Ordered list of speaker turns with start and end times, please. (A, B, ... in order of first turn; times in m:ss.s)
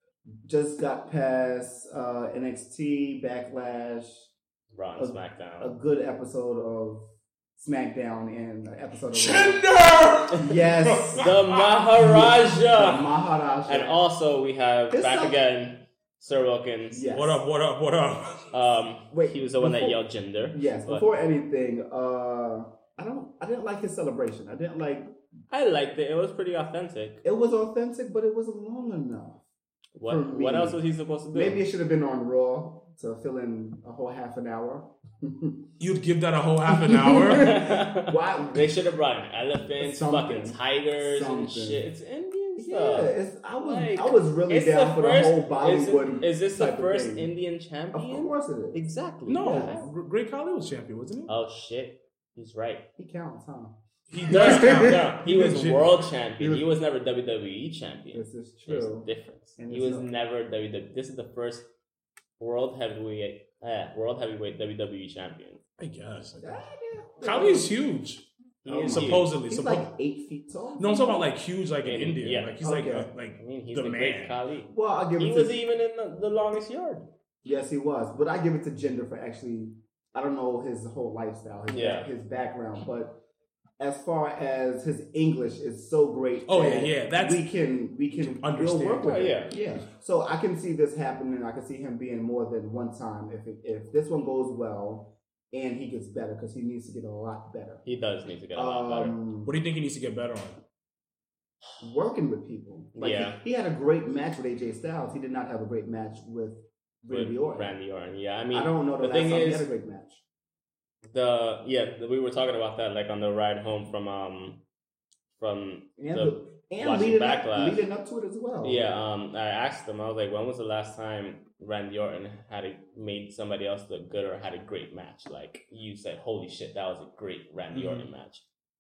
0:00.5-0:04.3 A
0:04.7-0:05.8 B
0:05.0-0:09.6 A
0:09.1-0:11.8 C
0:10.4-0:11.3 A
0:11.1-0:13.1 B
0:11.9-0:14.0 A
0:13.7-0:17.1 B
0:14.9-0:15.4 A
0:16.9-0:17.4 A
0:17.1-0:18.6 C
0:18.5-0:21.1 B
0:19.1-0:20.0 A
0:20.5-0:25.1 A
0:25.5-0:27.2 B
0:27.2-0:29.4 A
0:30.0-0:31.6 B
0:30.0-0:30.8 A
0:31.3-0:35.6 A
0:35.8-0:37.5 C
0:36.7-0:38.8 A
0:37.3-0:49.9 B
0:39.8-0:41.9 A
0:42.6-0:47.3 A
0:47.9-0:48.8 A
0:49.3-0:51.3 C
0:49.4-0:49.9 A
0:51.3-0:52.8 B
0:53.0-0:55.0 A
0:54.1-0:56.1 C
0:54.3-1:01.7 B
0:56.4-0:56.6 A
0:58.1-1:00.1 A
1:02.4-1:05.6 B
1:05.8-1:06.7 C
1:06.4-1:07.8 A
1:07.2-1:08.3 C
1:08.6-1:09.3 B
1:08.7-1:11.3 A
1:08.8-1:09.9 C
1:10.8-1:14.4 C
1:11.8-1:17.1 B
1:12.6-1:13.1 A
1:14.7-1:15.6 A
1:17.4-1:23.2 A
1:21.7-1:22.1 B
1:23.8-1:37.8 A
1:26.5-1:27.4 C
1:28.1-1:29.4 C
1:29.0-1:29.6 B
1:37.8-1:39.2 B
1:38.6-1:39.5 A
1:39.4-1:40.6 C
1:41.8-1:47.8 A
1:43.0-1:43.4 B
1:47.1-1:49.7 B
1:48.5-1:50.2 A
1:51.1-1:54.6 B
1:55.4-1:57.9 B
1:56.0-1:58.9 A
1:58.6-2:08.4 B
2:07.7-2:08.1 C